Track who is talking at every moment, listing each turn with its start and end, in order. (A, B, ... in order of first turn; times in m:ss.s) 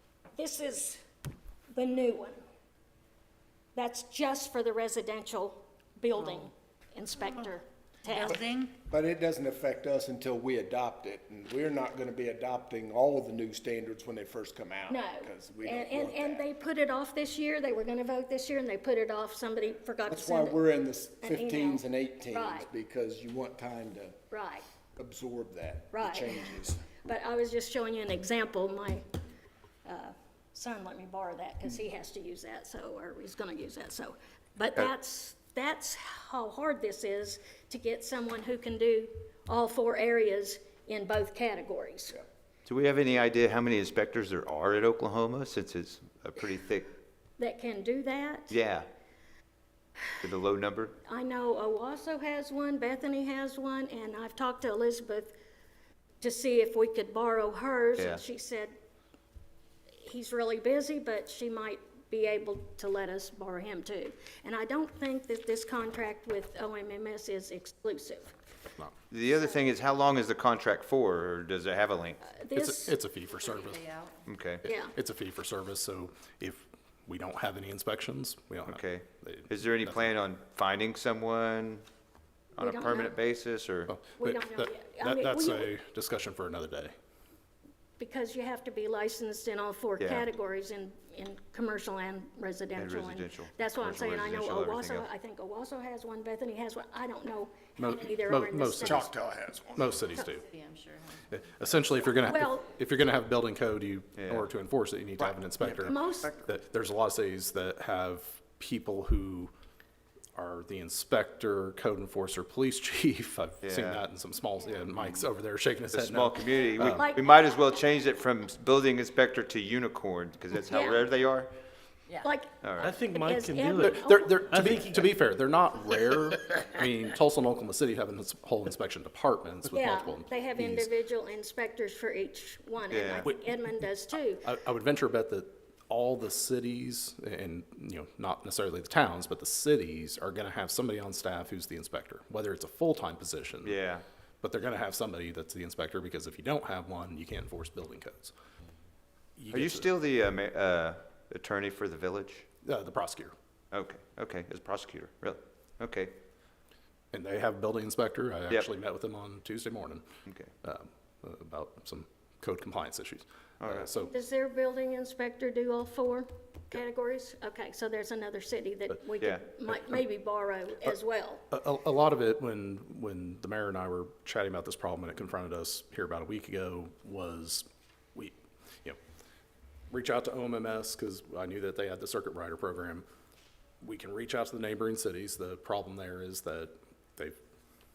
0:00.4-0:01.0 A
0:01.7-0:02.4 A
0:03.7-0:08.4 A
0:08.1-0:08.7 B
0:08.2-0:16.5 C
0:14.9-0:20.6 A
0:20.1-0:24.2 C
0:21.2-0:22.7 A
0:24.3-0:24.6 A
0:25.0-0:26.8 C
0:25.9-0:29.0 A
0:29.8-0:42.2 A
0:42.6-0:46.9 D
0:47.4-0:48.6 A
0:48.5-0:48.9 D
0:50.2-0:51.0 D
0:51.1-0:55.3 A
0:56.2-0:58.7 A
1:00.0-1:08.3 A
1:09.1-1:12.2 D
1:12.2-1:13.0 A
1:12.5-1:13.9 E
1:13.4-1:14.1 B
1:14.2-1:14.6 D
1:14.6-1:14.9 A
1:14.6-1:20.2 E
1:18.6-1:21.8 D
1:22.6-1:23.9 D
1:22.6-1:23.2 A
1:23.9-1:26.9 E
1:24.2-1:25.7 A
1:28.0-1:39.1 A
1:30.0-1:30.2 D
1:32.7-1:35.0 D
1:37.8-1:39.1 E
1:38.8-1:40.0 C
1:39.7-1:40.4 E
1:40.2-1:41.3 B
1:41.3-1:49.5 E
1:42.2-1:42.7 A
1:44.2-1:44.5 D
1:45.8-1:46.4 A
1:50.3-1:57.1 E
1:53.6-1:54.0 D
1:54.9-1:55.3 D
1:55.9-2:01.5 D
1:56.7-1:57.5 A
2:00.7-2:01.1 A
2:02.2-2:02.5 A
2:02.6-2:03.0 D
2:02.8-2:05.1 F
2:03.1-2:04.4 A
2:03.7-2:10.9 E
2:09.7-2:14.4 A
2:12.9-2:13.3 D
2:13.2-2:23.8 E
2:23.6-2:24.0 D
2:24.4-2:28.3 E
2:29.4-2:29.9 E
2:29.5-2:32.4 D
2:32.6-2:33.3 E
2:33.7-2:36.1 D
2:37.1-2:40.0 E
2:40.2-2:40.5 D
2:40.6-2:44.1 E
2:43.6-2:43.9 D
2:44.0-2:51.4 A
2:51.5-2:59.0 E
2:59.9-3:03.0 E
3:03.8-3:07.4 E